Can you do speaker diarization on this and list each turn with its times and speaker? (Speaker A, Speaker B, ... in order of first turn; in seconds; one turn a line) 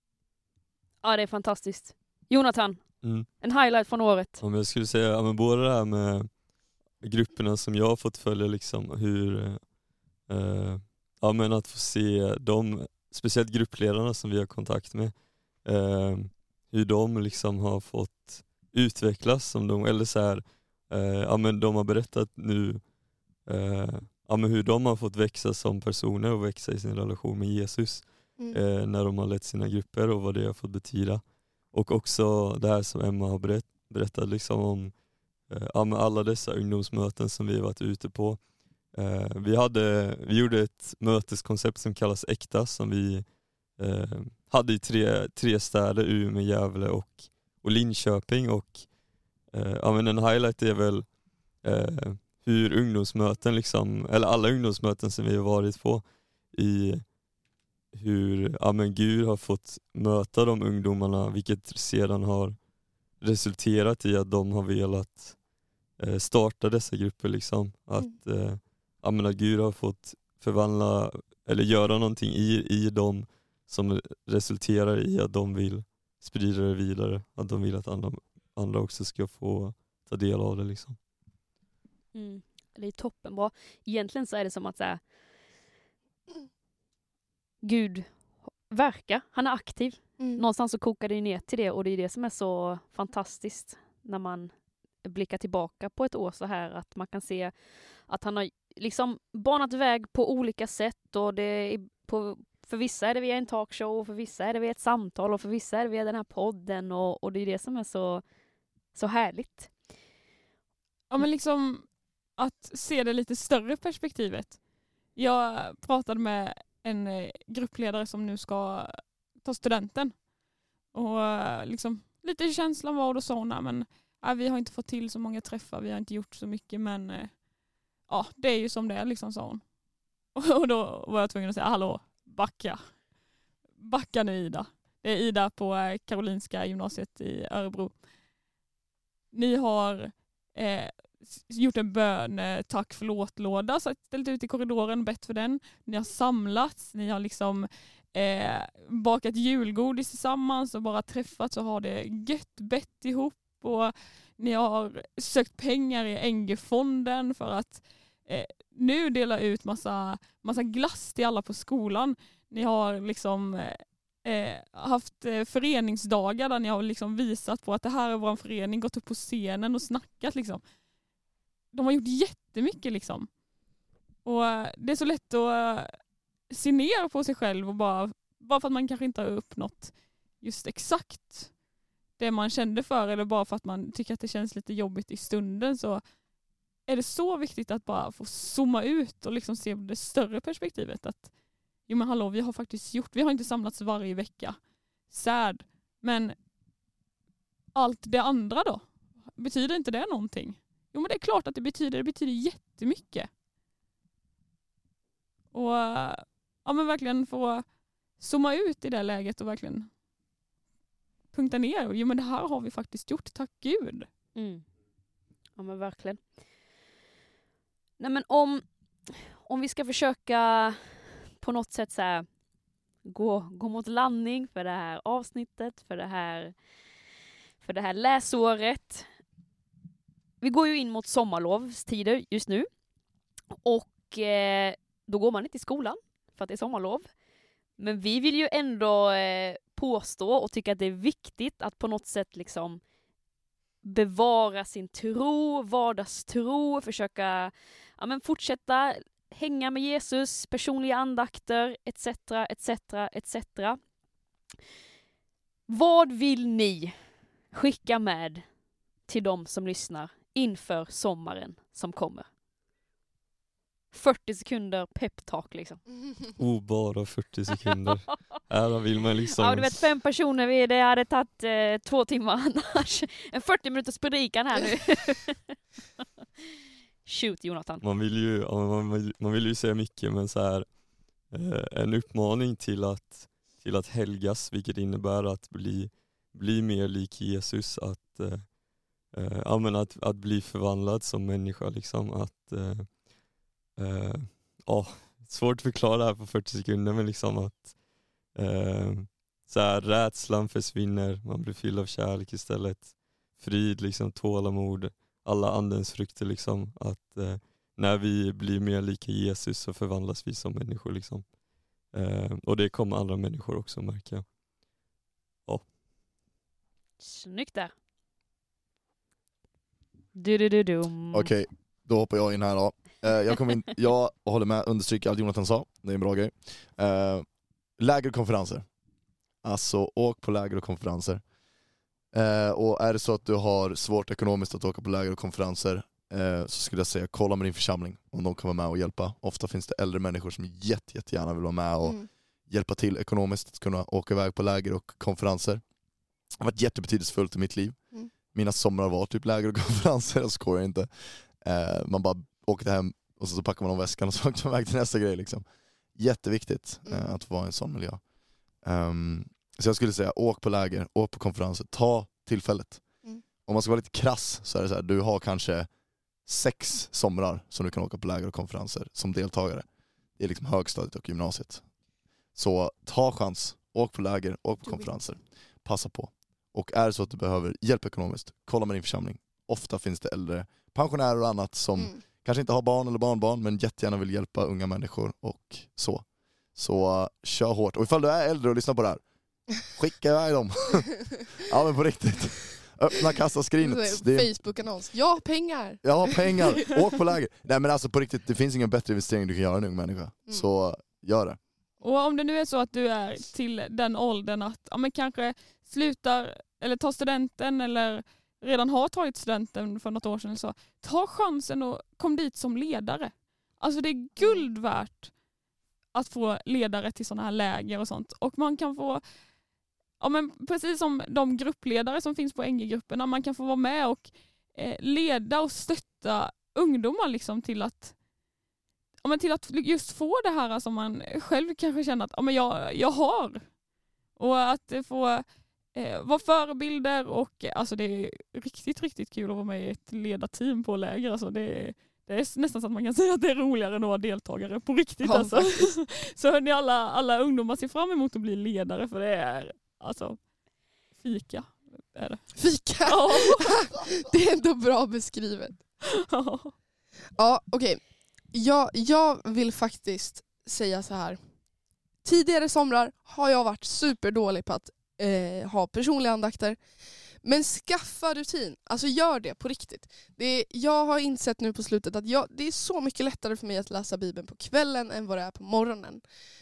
Speaker A: 1.0-4.4
Speaker B: 3.0-3.3
Speaker B: 4.4-57.2
Speaker B: 57.9-81.0
Speaker A: 82.1-85.0
Speaker A: 87.6-108.2
Speaker A: 108.9-109.7
Speaker C: 111.1-120.3
Speaker C: 120.9-129.7
Speaker C: 130.3-133.1
Speaker C: 133.8-138.0
Speaker C: 139.3-170.6
Speaker C: 171.7-173.4
Speaker C: 174.2-181.6
Speaker C: 182.2-186.0
Speaker C: 186.8-196.3
Speaker C: 197.7-203.3
Speaker C: 205.5-209.9
Speaker C: 211.3-214.1
Speaker A: 214.3-214.8
Speaker A: 215.6-216.2
Speaker A: 218.0-222.4
Speaker A: 223.1-226.6
Speaker A: 227.6-229.1
Speaker A: 230.4-232.7
Speaker A: 233.6-237.1
Speaker A: 237.8-242.8
Speaker A: 243.8-253.8
Speaker A: 255.7-256.9
Speaker A: 257.5-258.4
Speaker A: 259.1-262.3
Speaker A: 263.9-265.8
Speaker B: 266.4-269.8
Speaker A: 269.4-275.6
Speaker A: 277.0-277.8
Speaker B: 277.8-293.2
Speaker B: 293.7-314.3
Speaker B: 315.4-315.7
Speaker A: 317.0-317.7
Speaker A: 320.1-321.3
Speaker D: 321.1-327.2
Speaker D: 327.8-328.6
Speaker D: 329.4-331.2
Speaker D: 332.1-345.6
Speaker E: 341.8-342.1
Speaker D: 346.4-358.0
Speaker D: 358.6-365.7
Speaker D: 366.2-371.7
Speaker D: 372.3-389.0
Speaker E: 374.6-375.0
Speaker D: 389.6-394.3
Speaker E: 393.6-396.4
Speaker D: 395.8-401.4
Speaker C: 401.8-415.1
Speaker E: 414.2-414.5
Speaker C: 415.9-419.0
Speaker C: 420.0-428.0
Speaker C: 429.0-433.5
Speaker C: 434.1-450.3
Speaker E: 445.0-445.7
Speaker C: 450.9-453.6
Speaker E: 452.3-455.6
Speaker C: 456.0-456.5
Speaker E: 457.2-461.2
Speaker E: 462.0-466.6
Speaker E: 467.2-476.0